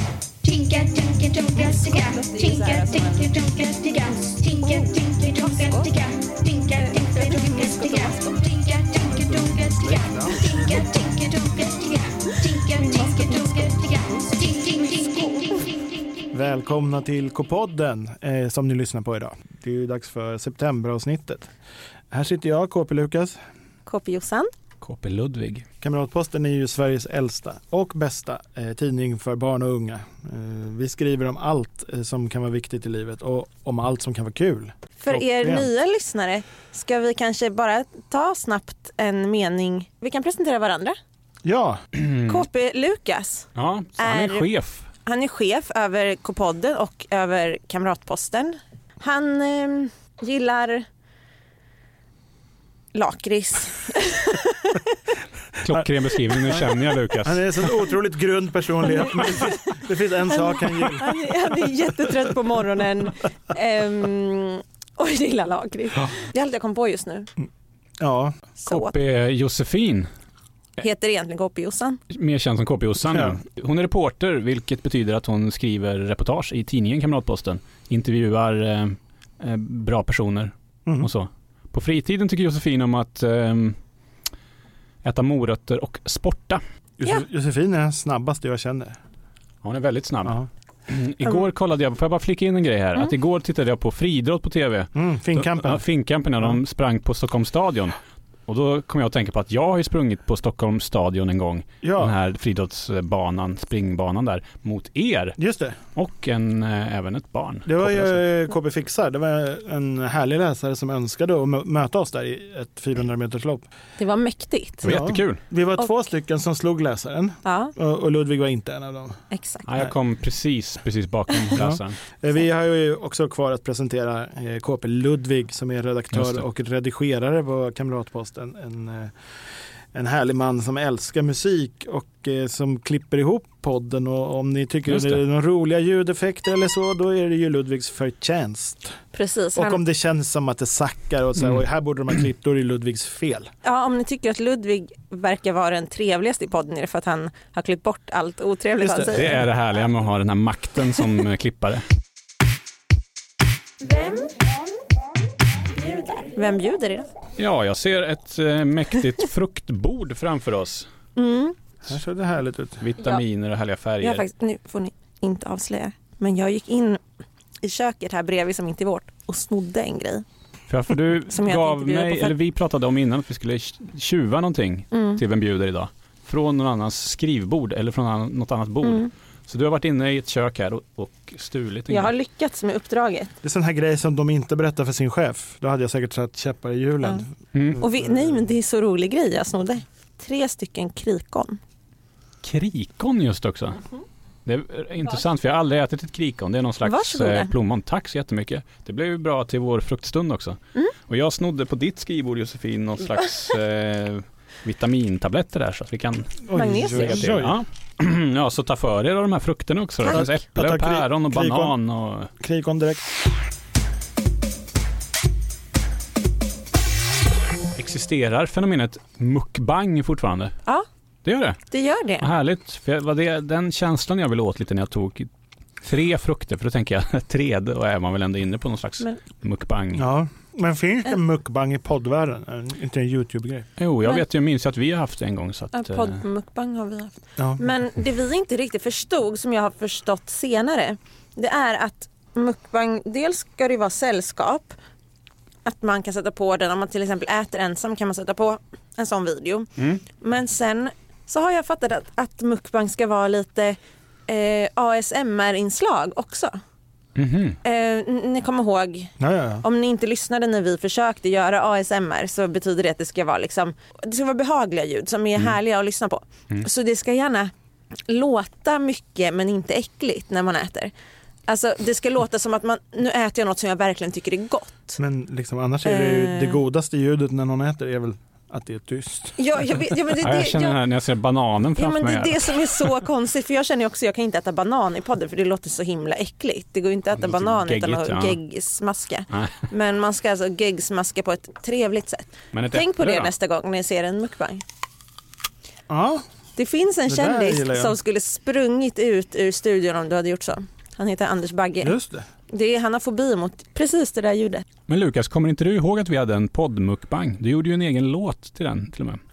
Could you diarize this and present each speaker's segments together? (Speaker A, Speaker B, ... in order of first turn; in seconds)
Speaker A: 0.4-15.8
Speaker B: 1.6-3.4, 4.5-5.9, 6.7-8.5, 12.6-13.7, 14.8-15.7, 23.9-24.5, 35.0-41.0, 42.2-44.5, 45.0-50.9, 52.9-54.9, 59.0-59.7, 60.3-67.3, 68.6-69.0, 70.8-72.0, 114.0-114.9, 117.4-117.7, 119.3-119.7, 139.1-139.8, 143.6-149.4, 153.8-154.4, 155.7-157.1, 161.2-161.6, 164.0-167.0, 167.6-170.2, 171.3-172.3, 174.9-175.2, 178.8-179.1, 181.9-183.3, 187.8-191.6, 196.8-197.5, 206.5-207.3, 221.7-222.3, 235.7-244.8, 245.6-256.6, 257.6-267.5, 268.1-270.9, 271.5-275.0, 275.8-276.6, 279.4-280.8, 281.8-294.6, 296.6-301.9, 302.5-304.6
Speaker C: 9.0-10.9, 16.3-21.5, 22.1-23.4, 25.8-35.7, 41.4-41.8, 57.2-61.2, 68.0-68.4, 73.1-73.4, 87.0-89.0, 94.9-95.8, 101.8-102.1, 105.4-105.8, 107.7-113.7, 114.8-119.2, 121.5-129.1, 129.9-139.0, 139.5-143.5, 148.8-149.3, 161.8-162.8, 183.4-188.3, 206.5-207.6, 210.1-211.7, 212.4-213.1, 229.9-233.7, 237.4-237.6, 259.2-259.6, 275.0-279.4, 295.9-296.2, 297.1-298.0, 301.8-302.2
Speaker D: 24.8-25.6, 42.0-42.4, 43.5-44.9, 55.6-57.6, 68.7-70.1, 72.1-83.8, 85.0-86.6, 89.6-105.4, 105.9-108.2, 114.8-115.4, 119.7-122.0, 126.1-126.4, 134.9-135.2, 149.1-151.8, 157.4-160.9, 162.8-164.2, 170.7-182.1, 187.5-187.8, 192.4-193.8, 194.4-212.3, 217.8-220.5, 221.2-221.6, 222.2-225.3, 225.8-230.1, 233.8-236.2, 257.1-257.6, 280.2-282.9, 287.2-288.4, 289.3-289.6, 292.5-293.3, 304.9-309.2